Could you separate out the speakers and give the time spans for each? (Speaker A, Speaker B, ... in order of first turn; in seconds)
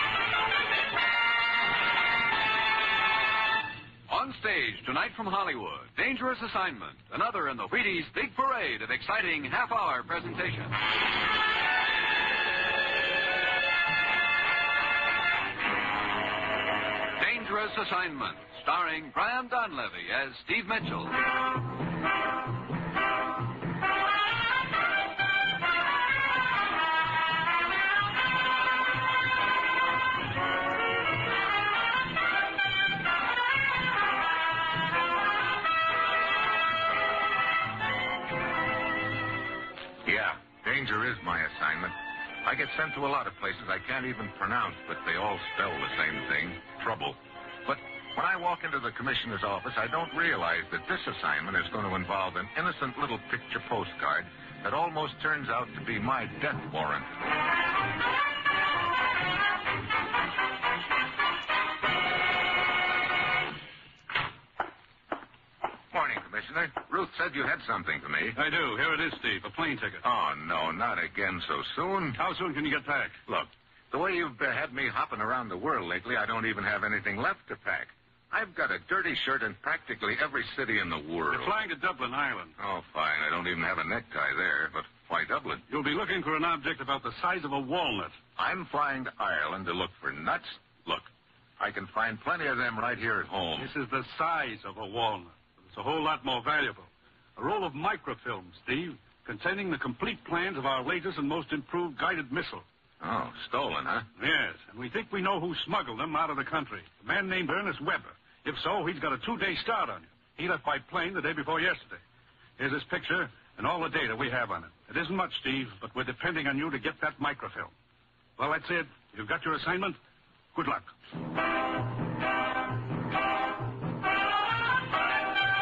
Speaker A: 4.1-10.8, 17.2-21.2
Speaker B: 40.0-57.1, 65.9-68.4, 70.0-72.2, 73.3-81.5, 82.6-85.6, 88.3-93.7, 103.0-104.1
Speaker C: 68.3-70.0, 72.1-73.2, 81.3-82.5, 85.7-88.2, 93.6-102.6, 104.2-112.0, 112.6-117.7, 118.4-120.0, 120.5-120.9